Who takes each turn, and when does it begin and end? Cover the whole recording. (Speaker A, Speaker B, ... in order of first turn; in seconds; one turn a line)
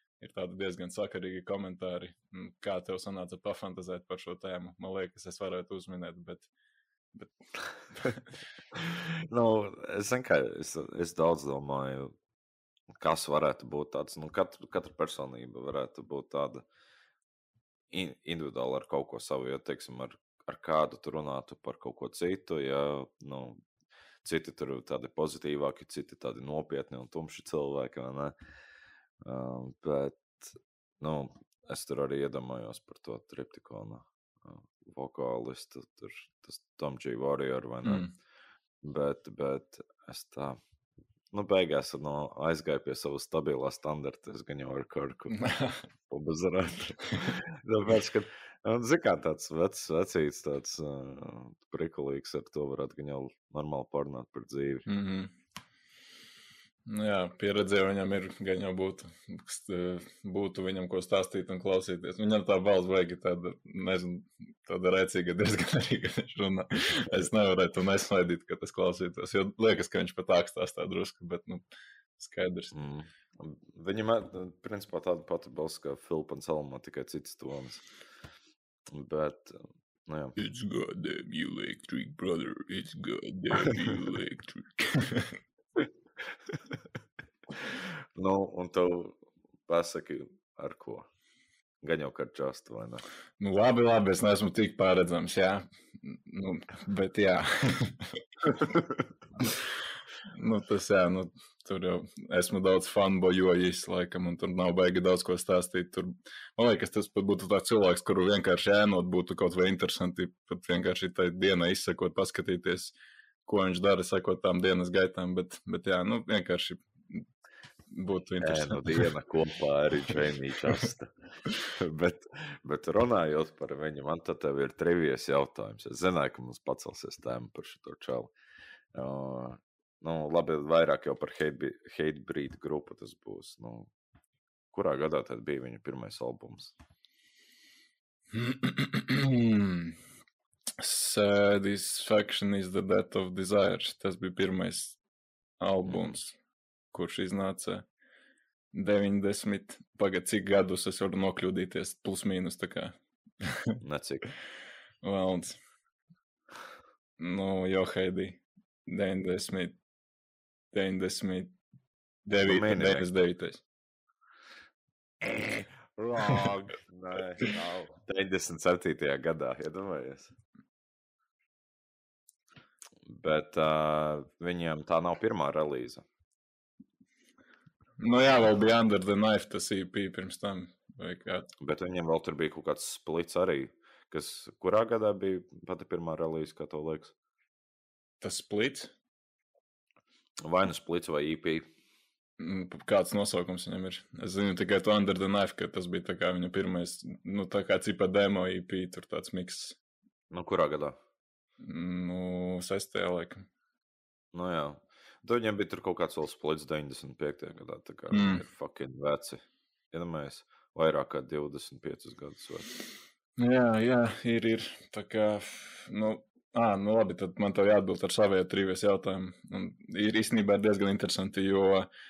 Speaker A: 0.2-6.5
Speaker A: 7.9-8.4
Speaker B: 8.8-12.2
Speaker B: 12.9-16.7
Speaker B: 17.9-23.6
Speaker B: 24.2-28.4
Speaker B: 29.2-38.1
Speaker A: 37.8-38.1
Speaker B: 38.8-40.6
Speaker B: 41.3-45.5
Speaker A: 45.3-45.8
Speaker B: 46.1-54.9
Speaker A: 54.9-55.3
Speaker A: 56.9-71.7
Speaker A: 72.2-72.7
Speaker B: 72.7-77.9
Speaker B: 78.9-80.4
Speaker A: 80.4-85.4
Speaker B: 86.5-86.7
Speaker B: 87.6-91.1
Speaker B: 91.8-93.0
Speaker A: 93.4-98.2
Speaker A: 100.3-112.9
Speaker A: 113.5-117.2
Speaker A: 117.9-119.1
Speaker B: 118.4-121.1
Speaker B: 121.7-128.3
Speaker B: 128.9-133.9
Speaker B: 134.7-136.7
Speaker A: 138.3-140.0
Speaker A: 140.8-145.0
Speaker A: 145.6-146.4
Speaker B: 145.9-146.2
Speaker A: 146.9-147.9
Speaker A: 148.7-153.0
Speaker B: 153.8-154.3
Speaker A: 155.0-155.6
Speaker A: 157.2-159.8
Speaker A: 160.7-161.5
Speaker A: 162.3-163.6
Speaker B: 162.4-163.1
Speaker B: 165.9-170.3
Speaker B: 173.1-176.1
Speaker A: 178.0-181.5
Speaker B: 181.6-187.1
Speaker A: 188.2-188.9
Speaker B: 190.4-191.7
Speaker A: 192.4-199.8
Speaker B: 200.3-201.0
Speaker A: 201.6-203.4
Speaker B: 204.3-212.7
Speaker A: 208.1-208.4
Speaker A: 213.4-221.9